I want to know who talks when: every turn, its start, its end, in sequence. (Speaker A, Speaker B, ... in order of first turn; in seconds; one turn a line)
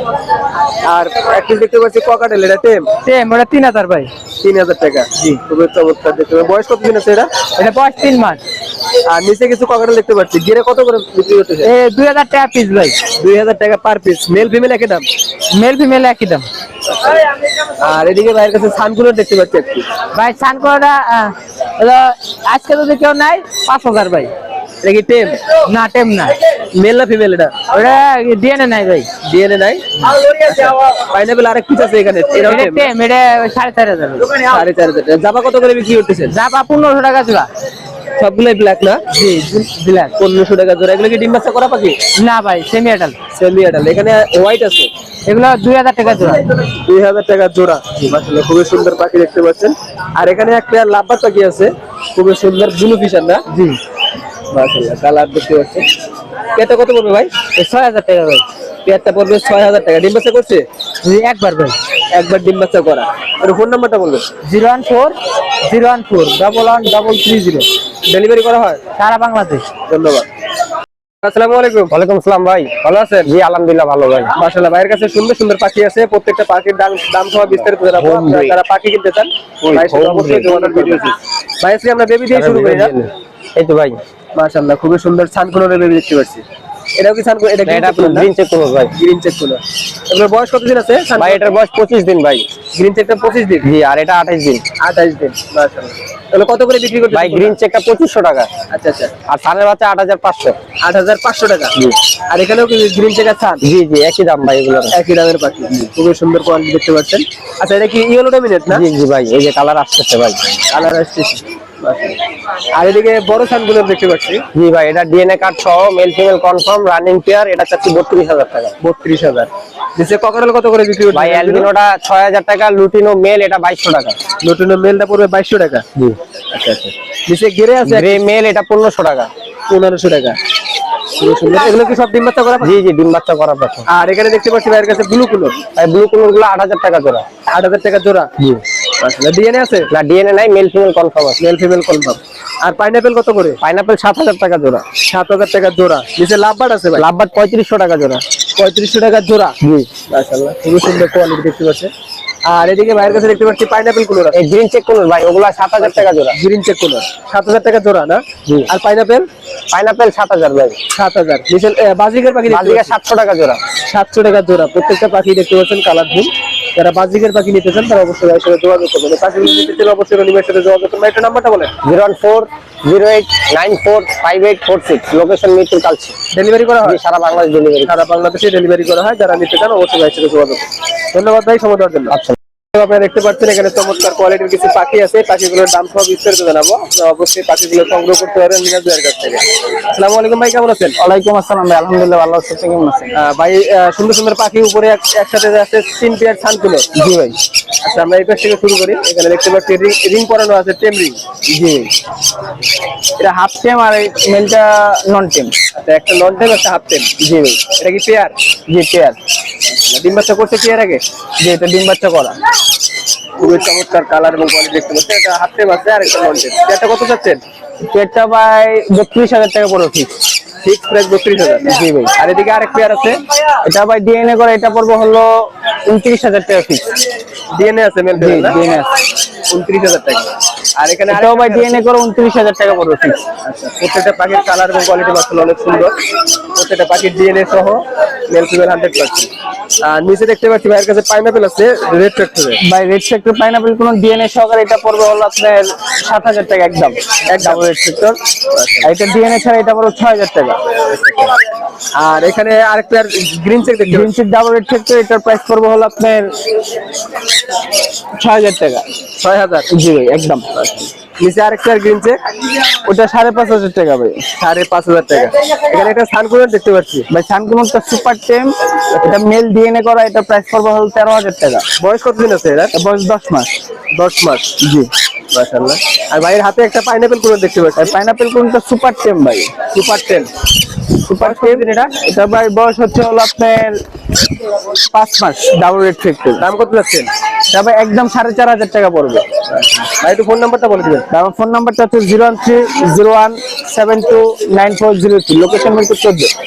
Speaker A: 0.8-2.9
Speaker B: 3.0-4.1
Speaker A: 4.4-7.3
Speaker B: 7.6-8.4
Speaker A: 9.1-11.7
Speaker B: 11.6-13.0
Speaker A: 13.1-15.1
Speaker B: 15.5-16.5
Speaker A: 17.8-19.9
Speaker B: 20.1-24.3
Speaker A: 24.8-25.4
Speaker B: 25.7-26.4
Speaker A: 26.7-27.6
Speaker B: 27.7-29.1
Speaker A: 29.2-32.9
Speaker B: 32.4-34.5
Speaker A: 34.5-36.3
Speaker B: 36.3-37.5
Speaker A: 38.2-39.0
Speaker B: 39.1-40.1
Speaker A: 40.2-42.0
Speaker B: 42.1-43.1
Speaker A: 43.3-44.9
Speaker B: 45.2-46.4
Speaker A: 46.8-53.4
Speaker B: 53.5-53.8
Speaker A: 54.5-55.9
Speaker A: 56.5-57.3
Speaker B: 57.5-58.5
Speaker A: 58.8-60.6
Speaker B: 61.0-61.8
Speaker A: 62.1-64.2
Speaker B: 64.4-67.7
Speaker A: 68.1-68.8
Speaker B: 69.0-69.7
Speaker A: 69.8-70.2
Speaker A: 71.2-71.9
Speaker C: 71.9-74.3
Speaker A: 72.8-73.3
Speaker A: 74.3-82.9
Speaker C: 78.0-78.6
Speaker C: 79.6-81.0
Speaker C: 82.3-84.0
Speaker A: 84.3-86.4
Speaker A: 87.0-88.3
Speaker C: 87.7-88.9
Speaker A: 88.9-91.5
Speaker C: 91.2-92.5
Speaker A: 92.7-93.7
Speaker C: 93.6-94.6
Speaker A: 94.8-97.5
Speaker C: 97.1-98.5
Speaker A: 98.7-99.1
Speaker C: 99.3-100.6
Speaker A: 100.8-101.7
Speaker A: 102.3-103.6
Speaker C: 103.6-104.9
Speaker A: 104.9-108.8
Speaker C: 108.7-110.6
Speaker A: 110.7-112.2
Speaker A: 112.7-114.4
Speaker C: 114.5-118.8
Speaker A: 118.8-121.7
Speaker C: 121.1-124.2
Speaker A: 124.4-125.8
Speaker A: 126.5-128.2
Speaker C: 127.8-129.3
Speaker A: 129.7-130.4
Speaker A: 131.2-132.8
Speaker C: 132.6-133.9
Speaker A: 133.9-135.6
Speaker C: 135.8-137.2
Speaker A: 137.5-138.3
Speaker A: 139.0-139.9
Speaker C: 139.9-141.4
Speaker A: 141.4-143.6
Speaker C: 143.6-144.8
Speaker A: 145.1-147.0
Speaker C: 146.9-148.2
Speaker A: 148.6-149.6
Speaker C: 149.6-149.9
Speaker A: 150.1-151.9
Speaker A: 152.4-154.3
Speaker C: 154.3-156.3
Speaker A: 155.8-159.3
Speaker C: 159.7-160.8
Speaker A: 160.9-162.9
Speaker C: 162.5-163.6
Speaker A: 163.9-171.7
Speaker C: 171.8-176.2
Speaker A: 176.3-177.0
Speaker C: 176.8-177.9
Speaker A: 177.8-182.1
Speaker C: 182.1-182.4
Speaker A: 182.7-190.9
Speaker D: 191.0-193.1
Speaker A: 193.1-196.8
Speaker D: 196.9-197.3
Speaker A: 197.8-201.2
Speaker D: 201.6-201.9
Speaker D: 203.2-205.5
Speaker A: 205.8-207.1
Speaker D: 207.2-207.5
Speaker A: 207.7-208.3
Speaker D: 208.7-209.2
Speaker A: 209.7-211.0
Speaker D: 211.4-212.4
Speaker A: 213.4-217.4
Speaker D: 217.9-220.1
Speaker A: 220.6-223.2
Speaker D: 221.8-222.1
Speaker D: 223.7-225.3
Speaker D: 225.9-226.8
Speaker A: 227.5-228.6
Speaker D: 228.2-228.9
Speaker A: 229.5-231.8
Speaker D: 231.1-233.2
Speaker A: 233.4-235.9
Speaker A: 236.6-237.8
Speaker A: 238.3-239.3
Speaker A: 239.8-242.6
Speaker D: 242.6-248.1
Speaker A: 247.3-247.6
Speaker A: 248.5-248.9
Speaker D: 248.8-250.6
Speaker A: 250.9-251.3
Speaker A: 252.0-254.1
Speaker D: 253.9-256.3
Speaker D: 258.2-258.9
Speaker A: 259.2-259.7
Speaker D: 259.7-260.4
Speaker A: 260.6-262.2
Speaker D: 262.9-264.2
Speaker A: 264.4-267.1
Speaker D: 267.1-268.5
Speaker D: 269.0-271.6
Speaker A: 271.8-272.7
Speaker D: 272.7-273.6
Speaker A: 273.9-274.5
Speaker D: 274.6-274.9
Speaker A: 275.3-277.9
Speaker D: 277.8-279.5
Speaker A: 279.7-280.3
Speaker D: 281.1-283.8
Speaker A: 281.1-281.9
Speaker D: 284.9-286.4
Speaker A: 286.4-287.1
Speaker D: 287.5-289.2
Speaker A: 289.5-291.1
Speaker D: 291.1-296.3